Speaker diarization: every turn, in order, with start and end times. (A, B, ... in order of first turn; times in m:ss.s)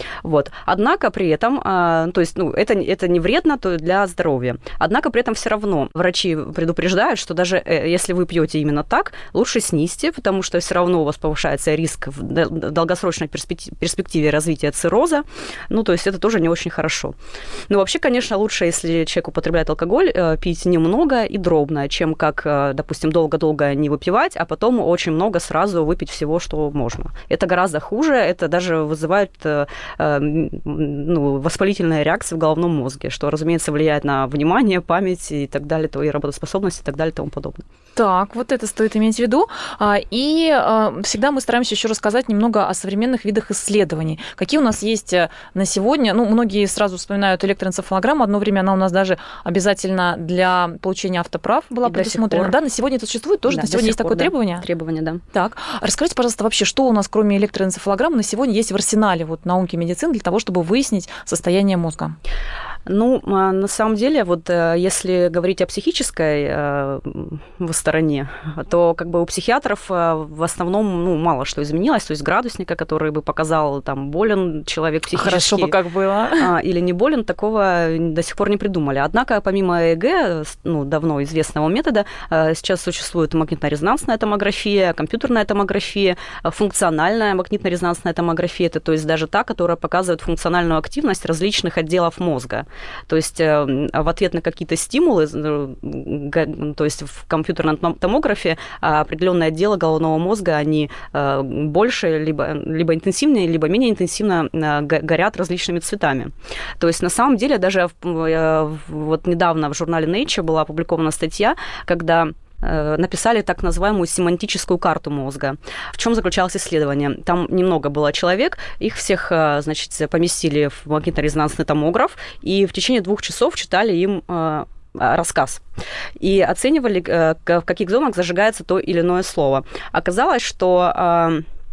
0:00.2-0:17.1 A
0:17.7-0:37.6 A
0:38.0-0:54.6 B
0:51.8-0:52.6 A
0:53.5-0:55.2 A
0:55.3-1:02.2 B
1:02.9-1:15.8 A
1:15.1-1:16.5 B
1:16.4-2:05.6 A
2:06.2-2:11.4 A